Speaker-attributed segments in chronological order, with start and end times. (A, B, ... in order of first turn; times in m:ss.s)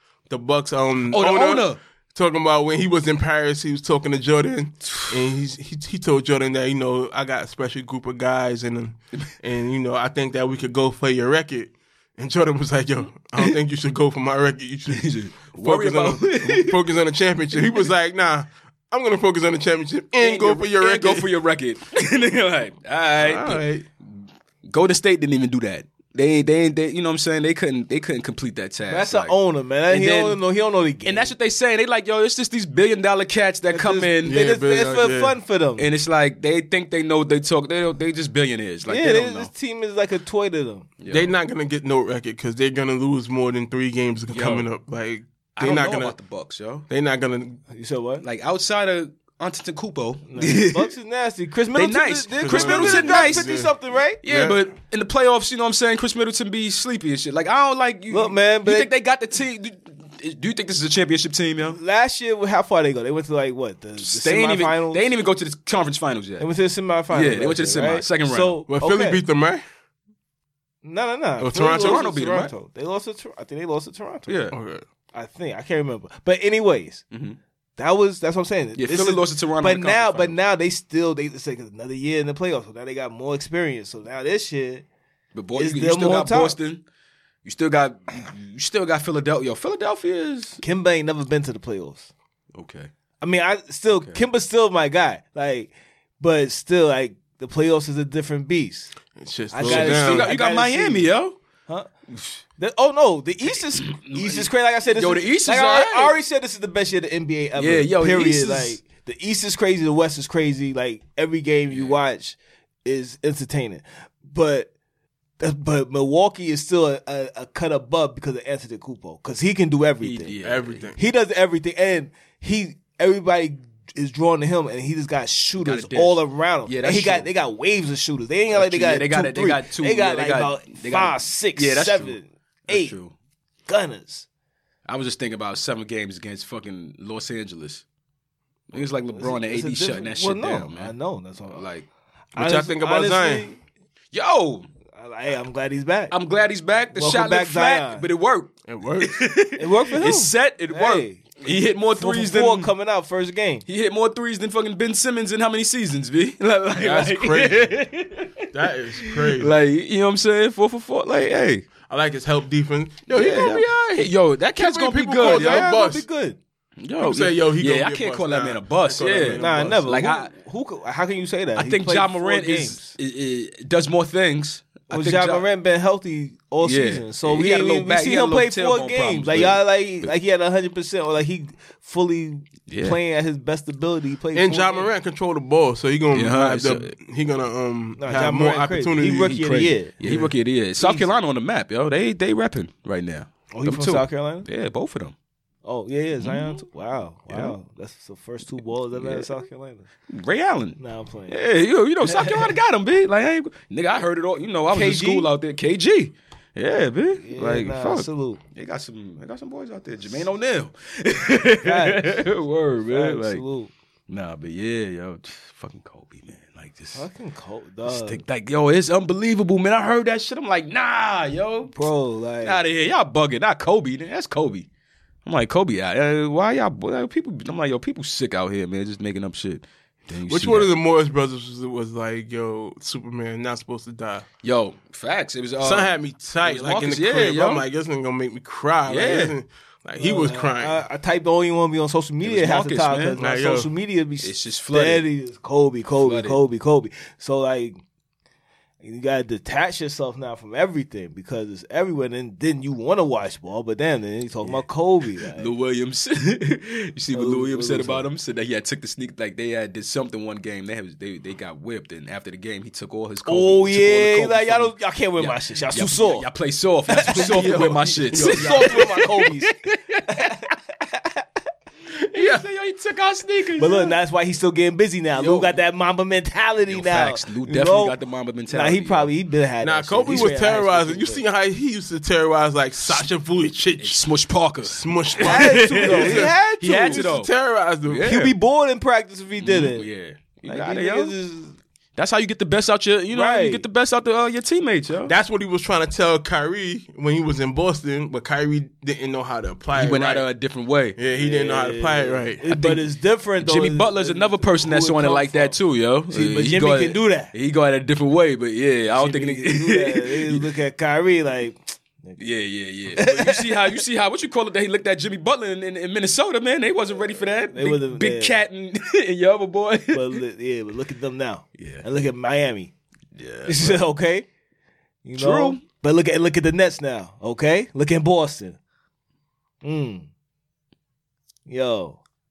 0:00.3-0:21.3 A
0:01.1-0:01.8 B
0:14.9-0:16.8 B
0:17.6-0:17.9 B
0:20.2-0:29.4 B
0:23.2-0:23.8 A
0:28.9-0:31.3 C
0:29.9-0:30.4 B
0:31.0-0:34.4 B
0:33.7-0:35.9 C
0:34.2-0:35.4 A
0:35.8-0:39.5 B
0:38.9-0:40.9 C
0:41.0-0:41.3 B
0:41.1-0:46.2 A
0:44.3-0:44.7 B
0:45.6-0:46.9 B
0:46.9-0:47.6 A
0:47.7-0:48.2 C
0:48.2-0:50.9 B
0:50.3-0:54.2 C
0:51.7-0:53.6 B
0:52.4-0:53.7 A
0:54.2-1:01.8 B
0:54.3-0:54.6 A
0:58.1-0:58.9 C
1:01.6-1:05.1 C
1:04.0-1:06.5 B
1:06.4-1:09.2 C
1:07.1-1:08.6 B
1:08.7-1:09.6 A
1:10.8-1:14.5 C
1:11.4-1:12.0 A
1:11.7-1:12.5 B
1:14.3-1:14.6 B
1:14.5-1:14.8 A
1:15.1-1:17.0 C
1:17.1-1:17.4 B
1:17.8-1:24.9 C
1:18.8-1:20.4 B
1:25.3-1:26.8 B
1:25.6-1:26.6 C
1:27.4-1:30.6 B
1:30.6-1:32.1 C
1:32.5-1:32.9 B
1:33.2-1:38.9 C
1:33.9-1:34.2 B
1:39.2-1:40.3 A
1:39.5-1:41.1 C
1:39.6-1:41.4 B
1:42.1-1:42.4 B
1:42.6-1:54.7 C
1:43.5-1:46.2 B
1:47.6-1:48.8 B
1:51.7-1:52.0 B
1:55.4-2:00.4 C
2:00.0-2:00.9 B
2:00.4-2:01.0 A
2:01.0-2:13.0 C
2:05.6-2:07.3 B
2:08.5-2:13.1 B
2:13.7-2:14.3 C
2:14.9-2:17.8 B
2:18.7-2:20.9 B
2:19.1-2:21.7 C
2:21.5-2:21.9 B
2:22.4-2:23.5 A
2:22.4-2:23.6 C
2:24.1-2:24.7 B
2:25.0-2:26.1 C
2:26.1-2:32.7 B
2:26.9-2:28.1 C
2:28.7-2:29.2 A
2:29.6-2:31.2 C
2:32.0-2:33.6 C
2:33.7-2:38.5 B
2:36.8-2:37.8 A
2:38.5-2:39.5 A
2:39.0-2:41.7 B
2:41.9-2:46.1 A
2:43.1-2:45.7 B
2:45.2-2:46.4 C
2:46.8-2:50.3 B
2:47.0-2:49.8 A
2:49.4-2:53.0 C
2:51.6-2:55.5 B
2:54.9-3:04.9 C
2:56.6-3:00.1 B
3:02.7-3:03.0 B
3:04.3-3:09.4 A
3:06.1-3:06.9 B
3:08.0-3:10.3 C
3:09.2-3:15.1 B
3:10.0-3:10.3 A
3:10.8-3:11.1 C
3:13.5-3:14.5 C
3:15.6-3:19.9 C
3:16.2-3:16.6 B
3:17.3-3:17.6 B
3:18.9-3:19.3 B
3:20.1-3:33.4 B
3:20.8-3:21.4 C
3:22.0-3:22.5 C
3:24.7-3:25.3 C
3:27.2-3:28.4 C
3:31.6-3:32.3 C
3:32.9-3:33.7 C
3:34.1-3:37.1 B
3:36.9-3:38.2 C
3:37.8-3:41.8 B
3:41.7-3:42.6 C
3:42.4-3:44.7 B
3:45.2-3:50.7 B
3:50.3-3:54.3 A
3:54.4-3:55.9 B
3:55.6-4:00.8 A
3:56.4-3:57.7 B
3:58.9-3:59.4 B
4:00.0-4:07.8 C
4:02.2-4:03.2 B
4:03.2-4:03.7 A
4:04.2-4:05.0 B
4:06.0-4:06.4 B
4:08.8-4:15.5 C
4:15.2-4:30.4 B
4:17.1-4:18.1 C
4:23.3-4:26.3 C
4:26.9-4:29.6 C
4:27.4-4:28.8 A
4:30.1-4:31.2 C
4:32.1-4:34.0 B
4:33.6-4:38.0 C
4:35.2-4:35.6 B
4:36.7-4:39.1 B
4:38.5-4:41.2 C
4:39.6-4:44.1 A
4:43.8-4:47.3 B
4:44.6-4:48.1 A
4:45.2-4:47.1 C
4:47.9-4:48.3 B
4:48.0-4:49.9 C
4:49.4-4:51.1 B
4:50.4-4:51.6 C
4:52.0-4:55.1 B
4:53.1-4:53.6 C
4:55.0-5:00.3 A
4:59.7-5:01.0 B
5:01.0-5:02.5 A
5:01.2-5:05.6 C
5:02.5-5:02.9 B
5:03.4-5:10.5 B
5:06.1-5:07.3 C
5:08.9-5:12.3 C
5:12.2-5:20.2 B
5:12.9-5:13.8 C
5:17.5-5:18.4 C
5:19.9-5:22.7 C
5:21.6-5:21.8 B
5:23.1-5:23.9 B
5:23.5-5:24.3 C
5:25.0-5:28.6 C
5:25.2-5:25.6 B
5:29.6-5:30.1 C
5:31.5-5:32.0 C